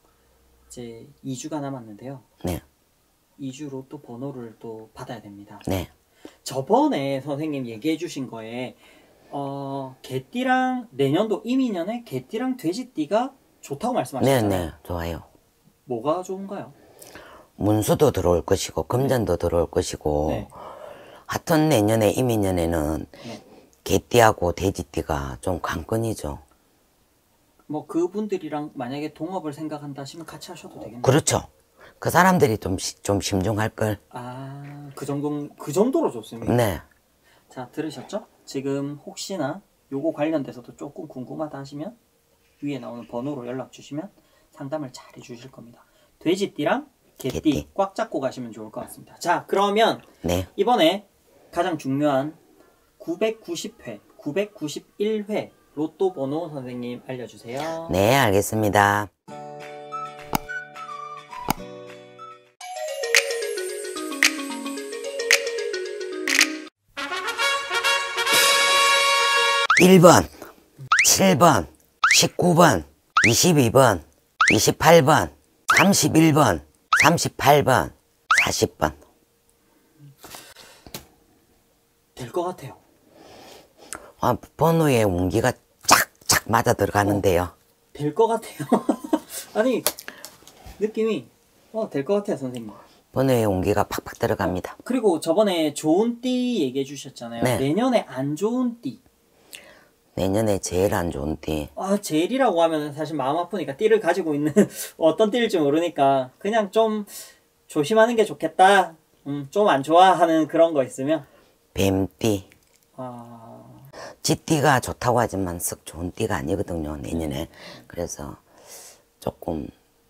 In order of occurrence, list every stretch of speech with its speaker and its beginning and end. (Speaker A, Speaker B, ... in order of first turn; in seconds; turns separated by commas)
Speaker A: 0.7-2.2, Speaker A: 3.4-5.6, Speaker A: 6.4-8.8, Speaker A: 9.3-14.7, Speaker B: 14.2-15.2, Speaker A: 15.8-16.7, Speaker B: 17.6-20.5, Speaker A: 20.2-20.5, Speaker B: 21.3-23.1, Speaker B: 23.8-26.4, Speaker A: 27.7-31.2, Speaker B: 31.0-31.5, Speaker B: 32.0-34.0, Speaker A: 34.1-36.6, Speaker B: 36.4-36.8, Speaker A: 37.5-42.0, Speaker A: 42.6-52.4, Speaker B: 47.3-47.6, Speaker B: 50.2-50.5, Speaker A: 53.0-58.0, Speaker B: 57.9-59.1, Speaker B: 69.8-70.3, Speaker B: 71.0-79.0, Speaker A: 82.2-82.8, Speaker B: 84.2-87.5, Speaker A: 87.9-89.9, Speaker A: 90.8-92.8, Speaker B: 93.1-94.8, Speaker A: 94.4-99.0, Speaker B: 97.4-97.7, Speaker B: 100.2-101.7, Speaker A: 101.8-111.2, Speaker B: 111.7-112.5, Speaker A: 113.0-113.9, Speaker B: 114.2-118.4, Speaker A: 117.1-117.5, Speaker B: 119.2-119.7